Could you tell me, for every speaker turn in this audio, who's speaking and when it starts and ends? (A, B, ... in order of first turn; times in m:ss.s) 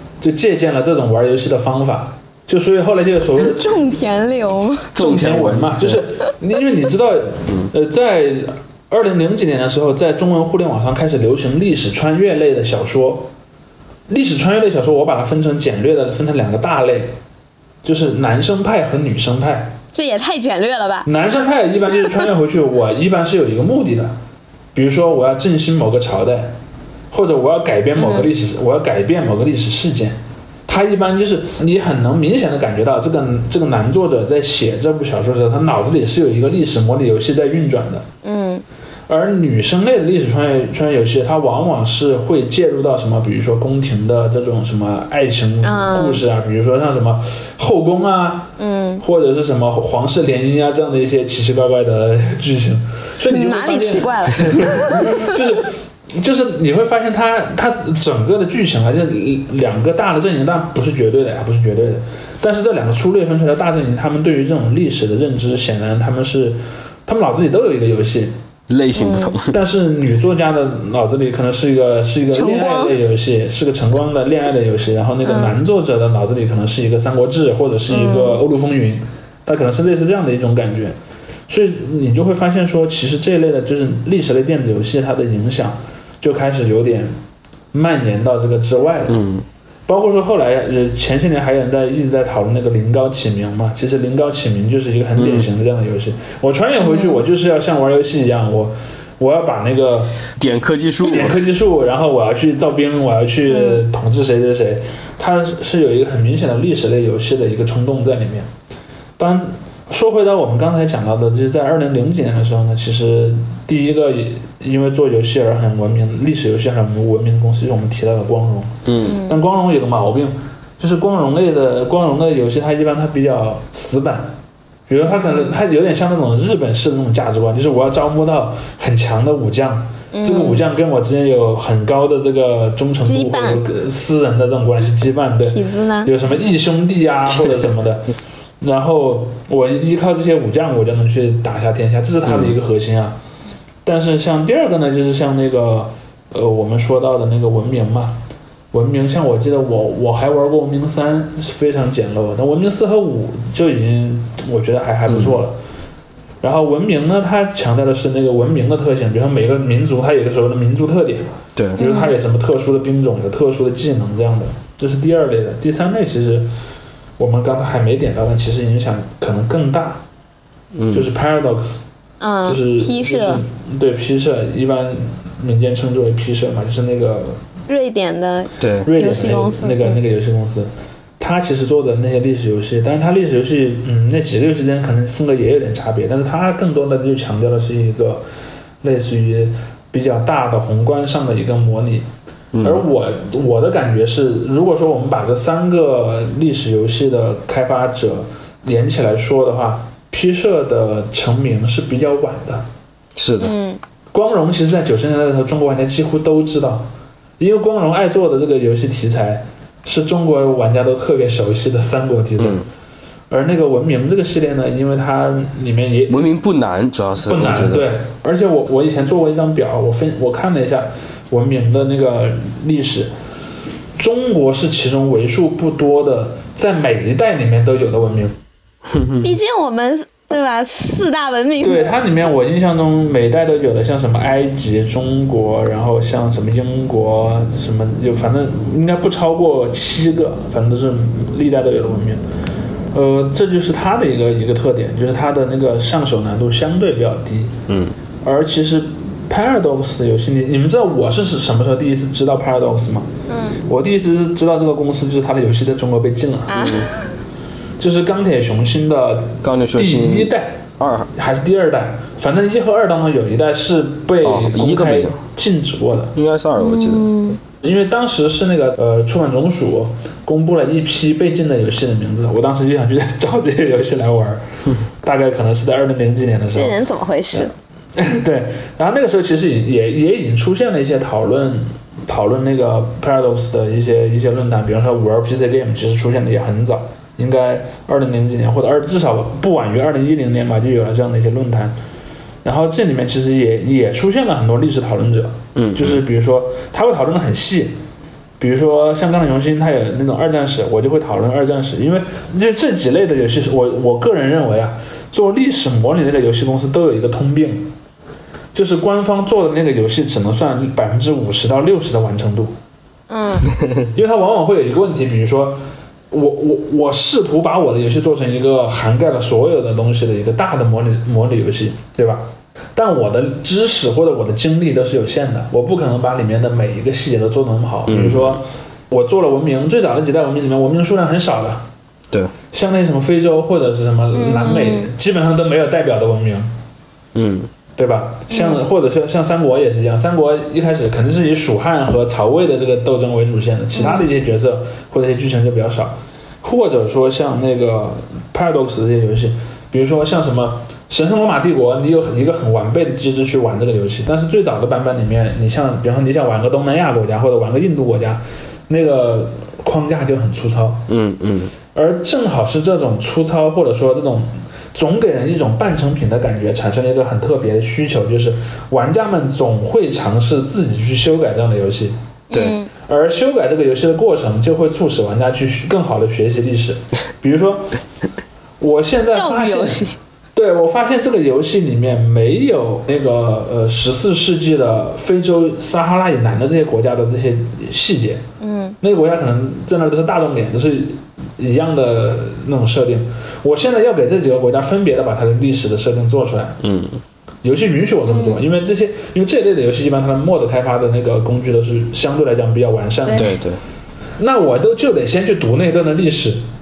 0:00.2-0:03.7 A
0:03.4-0:04.9 B
0:04.9-0:06.0 C
0:05.0-0:13.3 A
0:14.1-0:17.1 A
0:17.8-0:19.8 A
0:19.9-0:21.1 B
0:21.0-0:24.1 A
0:24.7-0:26.5 A
0:27.1-0:38.0 A
0:28.0-0:28.3 B
0:38.2-0:38.6 B
0:39.1-0:48.5 A
0:45.6-0:46.2 B
0:48.6-0:49.0 B
0:49.0-1:08.3 A
0:53.3-0:55.3 B
1:08.7-1:09.5 C
1:08.9-1:09.3 B
1:09.5-1:21.0 A
1:12.3-1:13.0 B
1:15.2-1:15.6 B
1:17.9-1:18.4 B
1:21.5-1:27.1 A
1:27.7-1:29.2 A
1:29.1-1:29.4 C
1:29.9-1:40.2 A
1:35.2-1:35.5 C
1:36.8-1:37.2 B
1:40.4-1:41.4 C
1:41.0-1:48.5 A
1:43.5-1:43.8 B
1:49.2-1:58.7 A
1:58.8-1:59.2 C
1:59.0-1:59.4 B
1:59.2-2:04.3 A
2:04.9-2:18.1 A
2:10.1-2:10.6 B
2:13.0-2:13.6 B
2:15.4-2:16.1 B
2:18.6-2:23.2 A
2:23.8-2:28.2 A
2:28.7-2:35.6 A
2:35.1-2:35.4 C
2:36.4-2:46.5 A
2:41.6-2:41.8 C
2:41.8-2:42.1 B
2:47.2-2:50.0 A
2:50.7-2:51.1 C
2:50.9-2:51.8 A
2:52.2-2:53.4 B
2:52.4-2:57.4 A
2:57.7-3:00.0 B
2:58.6-2:58.9 C
2:58.8-3:08.2 A
3:08.8-3:12.1 A
3:12.5-3:12.8 C
3:12.6-3:22.7 A
3:23.2-3:23.5 C
3:23.4-3:23.8 B
3:24.1-3:26.9 A
3:27.4-3:32.6 A
3:32.4-3:32.6 C
3:33.3-3:36.2 A
3:36.1-3:37.8 C
3:37.2-3:43.1 A
3:44.0-3:48.3 A
3:48.9-3:49.4 C
3:49.2-3:51.9 B
3:51.6-4:02.2 A
4:02.9-4:07.6 A
4:07.7-4:07.9 C
4:08.2-4:13.1 A
4:13.3-4:13.6 B
4:13.6-4:16.7 A
4:16.5-4:17.1 B
4:16.5-4:16.9 C
4:17.8-4:26.1 A
4:19.4-4:21.1 C
4:24.2-4:25.2 C
4:26.1-4:27.4 C
4:26.6-4:27.4 B
4:27.6-4:34.4 A
4:35.0-4:36.8 A
4:36.5-4:37.5 B
4:37.3-4:51.7 A
4:52.4-4:57.7 A
4:55.5-4:56.0 C
4:58.4-5:07.7 A
5:08.5-5:12.5 A
5:13.1-5:13.5 B
5:13.9-5:22.2 A
5:22.8-5:31.7 A
5:27.9-5:28.4 C
5:32.5-5:36.5 A
5:34.1-5:34.9 B
5:37.1-5:37.5 C
5:37.8-6:00.8 A
5:38.3-5:38.6 B
5:43.7-5:44.0 B
6:00.9-6:01.5 C
6:01.7-6:12.0 A
6:12.3-6:12.7 B
6:12.3-6:12.6 C
6:12.8-6:17.7 A
6:18.6-6:19.8 A
6:19.1-6:20.0 B
6:20.3-6:28.2 A
6:28.4-6:28.8 B
6:28.8-6:36.6 A
6:36.6-6:37.0 C
6:37.4-6:43.3 A
6:38.1-6:38.4 B
6:43.2-6:43.6 C
6:44.2-6:46.4 A